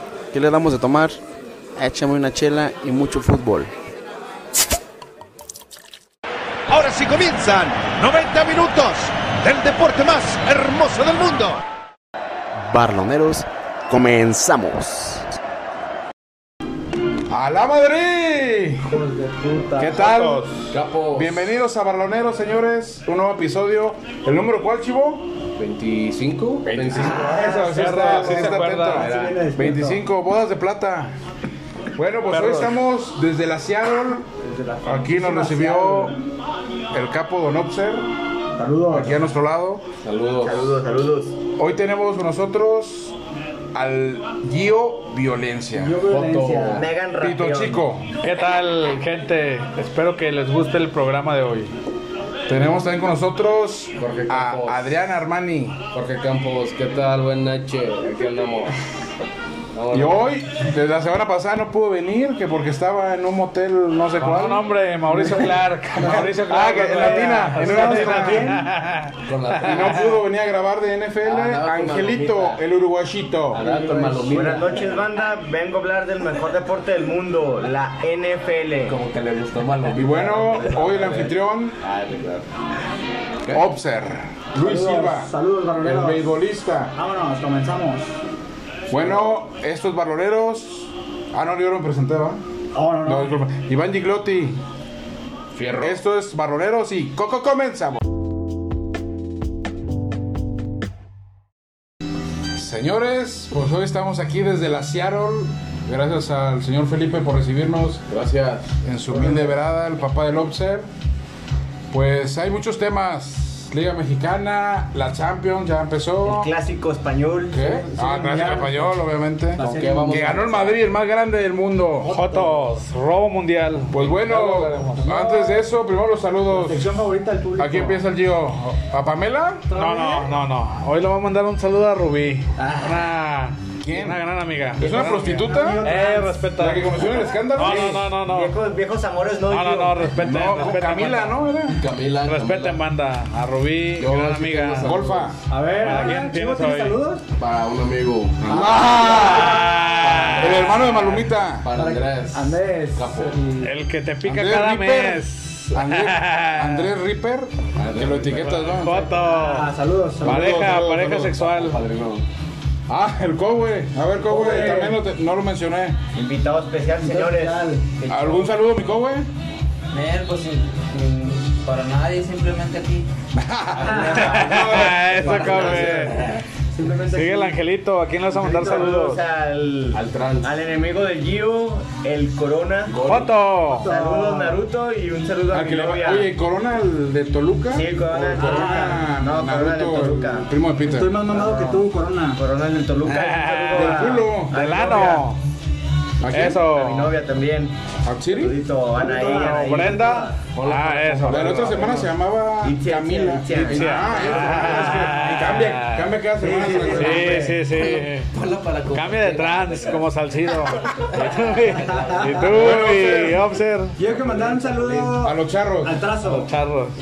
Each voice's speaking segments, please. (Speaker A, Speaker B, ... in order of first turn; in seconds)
Speaker A: 0.3-1.2, 1.8-3.7, 12.6-15.3
Speaker B: 6.7-11.6
Speaker C: 17.3-18.8, 19.8-25.3, 26.6-31.1, 31.9-34.3, 34.8-36.1, 36.9-38.0, 38.9-39.8, 41.5-43.1, 43.7-46.0, 47.2-48.1, 52.5-55.8, 59.9-65.4, 66.0-68.6, 69.6-73.6, 79.9-81.8, 83.5-86.9, 88.9-92.4, 93.0-94.6, 95.8-98.0, 102.5-108.0, 108.8-110.9, 111.9-116.5, 117.5-122.1, 123.9-129.7, 133.8-134.2, 134.8-135.8, 136.6-138.0, 140.2-141.8, 144.8-145.4, 148.4-149.8, 150.3-151.7, 154.2-159.1, 160.2-161.4, 162.9-166.0, 168.1-169.3, 173.3-175.1, 185.5-191.2, 193.7-194.6, 196.2-196.7, 198.0-198.6, 201.2-207.4, 212.4-213.4, 215.2-216.0
Speaker D: 18.8-20.0, 26.9-30.0, 34.4-36.2, 38.6-39.2, 45.8-46.8, 65.3-68.7, 73.7-74.2, 84.6-86.3, 87.0-88.2, 92.7-93.3, 117.9-118.9, 119.6-120.4, 122.1-122.4, 125.0-125.6, 126.5-128.0, 129.7-130.3, 132.6-133.0, 135.4-136.5, 145.5-147.2, 148.5-150.2, 151.7-153.7, 159.1-160.5, 164.2-165.0, 167.0-167.9, 173.8-174.2, 175.2-176.1, 176.7-177.6, 178.3-178.9, 183.7-184.6, 188.3-189.0, 190.8-192.4, 198.9-200.4, 204.2-205.2, 206.4-207.6, 211.8-212.5, 214.0-216.5
Speaker E: 20.0-20.4, 27.6-29.1, 32.3-32.8, 48.2-51.7, 64.2-69.8, 122.1-125.1, 129.7-137.0, 137.5-138.5, 139.5-141.4, 142.2-144.9, 145.8-147.0, 149.1-150.7, 153.6-156.9, 158.4-161.8, 174.1-176.3, 177.1-179.2, 183.0-183.9, 193.1-195.4, 196.3-197.1, 199.3-201.6, 203.7-206.1, 206.8-208.3, 208.9-213.9, 216.2-216.9
Speaker F: 20.7-21.4, 25.6-27.4, 28.9-29.5, 40.0-40.8, 46.1-46.9, 54.0-54.9, 55.9-58.7, 59.7-60.2, 69.2-70.1, 71.2-72.6, 73.5-75.0, 78.9-82.5, 88.9-89.3, 95.5-96.0, 108.1-108.7, 117.5-117.8, 119.6-120.8, 141.8-142.8, 144.0-145.3, 147.4-148.9, 149.9-150.8, 151.6-153.3, 157.8-158.7, 161.4-162.2, 175.1-176.0, 179.9-180.5, 182.9-183.4, 200.5-202.1, 207.7-210.0, 210.8-212.3, 214.1-215.2
Speaker G: 40.4-41.3, 46.7-47.8, 74.2-78.9, 116.2-117.6, 137.6-140.1, 166.1-167.7, 178.5-183.0, 183.8-186.3, 187.7-190.5, 191.3-195.2, 196.6-197.7, 198.3-200.0, 202.6-204.8
Speaker H: 169.9-173.1, 173.8-176.3